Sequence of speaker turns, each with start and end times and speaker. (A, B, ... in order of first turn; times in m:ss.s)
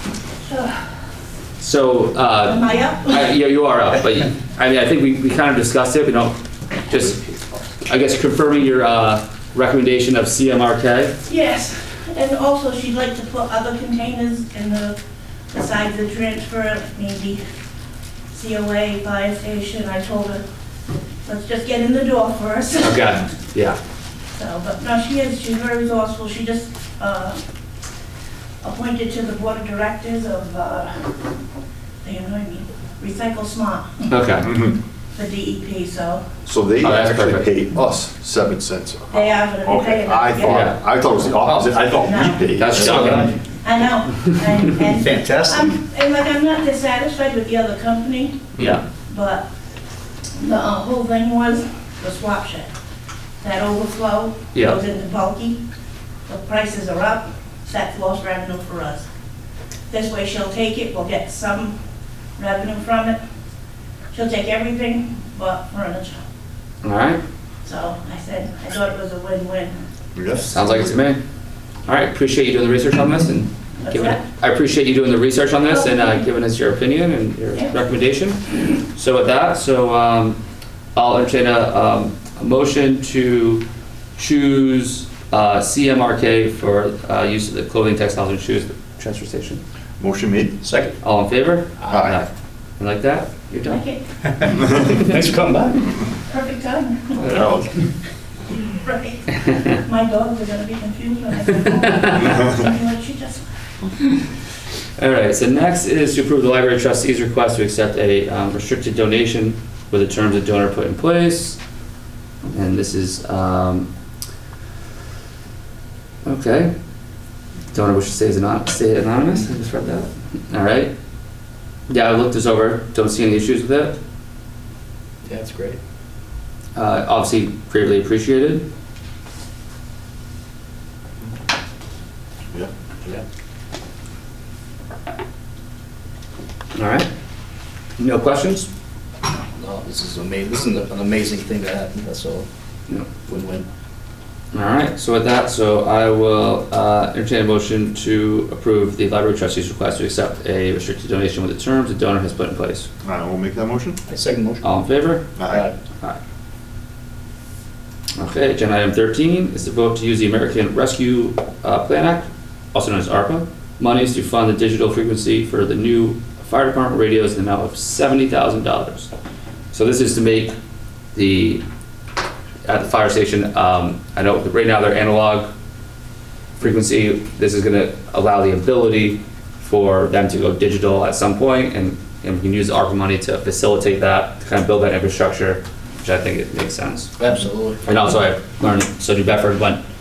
0:00.4-0:00.9 A
0:01.6-0:06.4 B
0:02.5-0:03.3 A
0:06.9-0:07.3 B
0:07.9-0:11.2 B
0:11.2-0:15.0 A
0:15.5-0:17.4 A
0:18.3-0:20.4 A
0:21.2-0:23.2 A
0:22.8-0:23.8 B
0:24.3-0:27.4 A
0:28.6-0:31.0 A
0:32.0-0:34.1 A
0:34.1-0:34.5 B
0:34.4-0:34.8 C
0:35.1-0:36.3 A
0:36.4-0:43.3 C
0:36.8-0:37.5 B
0:39.1-0:40.8 A
0:40.4-0:40.8 B
0:41.4-0:41.8 D
0:41.9-0:42.5 A
0:42.6-0:43.3 B
0:42.7-0:43.3 D
0:43.4-0:48.5 A
0:44.9-0:45.7 D
0:48.6-0:48.8 B
0:49.0-0:49.4 A
0:50.4-0:52.7 A
0:53.4-0:55.6 A
0:54.5-0:54.8 B
0:56.3-0:59.1 A
0:59.9-1:01.8 A
1:02.4-1:03.2 A
1:04.1-1:06.2 A
1:06.8-1:07.2 B
1:07.6-1:10.8 A
1:10.1-1:10.7 C
1:10.5-1:11.2 B
1:11.8-1:20.4 B
1:13.8-1:14.2 A
1:15.7-1:16.2 A
1:20.9-1:23.6 B
1:24.2-1:29.6 B
1:30.0-1:30.6 C
1:30.6-1:30.9 D
1:31.0-1:33.8 B
1:31.8-1:32.2 C
1:33.6-1:34.0 A
1:34.2-1:35.9 D
1:36.3-1:37.5 A
1:37.2-1:37.7 B
1:37.2-1:37.7 C
1:38.7-1:43.5 A
1:41.8-1:42.4 B
1:45.0-1:51.6 B
1:52.5-1:53.9 B
1:56.2-1:56.7 B
1:57.7-2:00.9 B
2:01.9-2:04.0 B
2:05.2-2:05.8 D
2:06.8-2:08.7 B
2:16.8-2:17.1 B
2:18.0-2:18.7 B
2:19.6-2:22.5 D
2:23.3-2:23.6 D
2:24.5-2:32.9 B
2:33.0-2:34.0 C
2:34.1-2:34.6 D
2:34.6-2:35.3 B
2:35.4-2:35.7 C
2:35.5-2:35.8 D
2:38.2-2:49.1 B
2:49.7-2:50.6 B
2:51.2-2:51.6 B
2:52.7-2:55.5 B
2:56.6-3:07.1 B
3:07.2-3:07.8 D
3:07.8-3:09.8 B